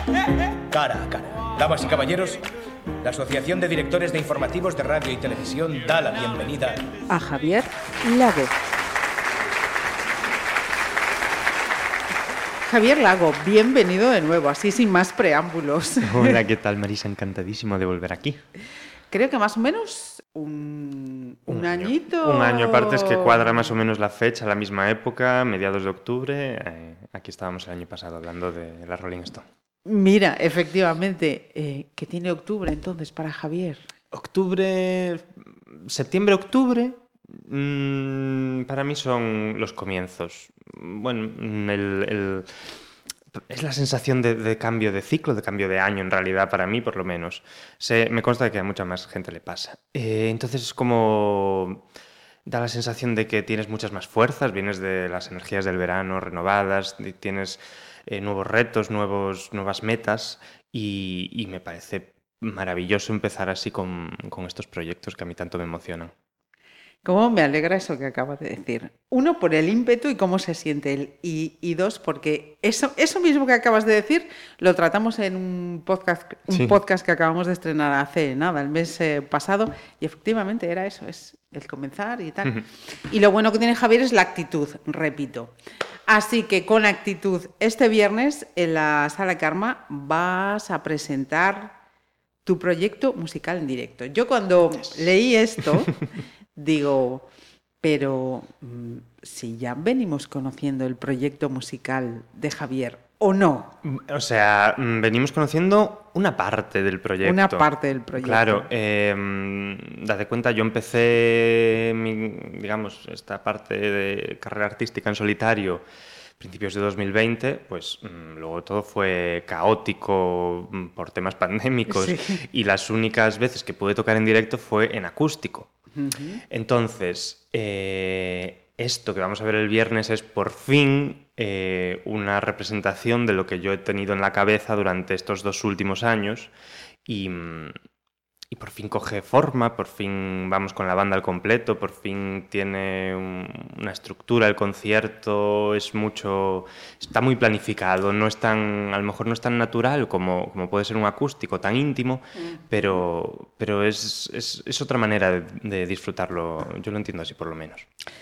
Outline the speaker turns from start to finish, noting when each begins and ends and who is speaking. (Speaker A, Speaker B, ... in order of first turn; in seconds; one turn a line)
Speaker A: 0.7-2.4
Speaker A: 3.0-6.8
Speaker B: 7.1-8.5
Speaker B: 12.6-16.4
Speaker C: 16.0-18.4
Speaker B: 19.1-23.7
Speaker C: 21.5-29.4
Speaker B: 29.8-33.8
Speaker C: 34.1-42.5
Speaker C: 43.3-51.8
Speaker C: 52.5-66.1
Speaker B: 67.0-85.5
Speaker C: 76.5-76.8
Speaker B: 86.1-91.8
Speaker B: 92.4-96.0
Speaker B: 96.5-97.3
Speaker B: 97.8-103.8
Speaker C: 103.8-115.8
Speaker B: 107.2-108.7
Speaker C: 116.4-125.7
Speaker B: 121.9-122.4
Speaker B: 126.0-126.4
Speaker C: 126.5-136.5
Speaker C: 137.1-137.7
Speaker C: 138.5-157.8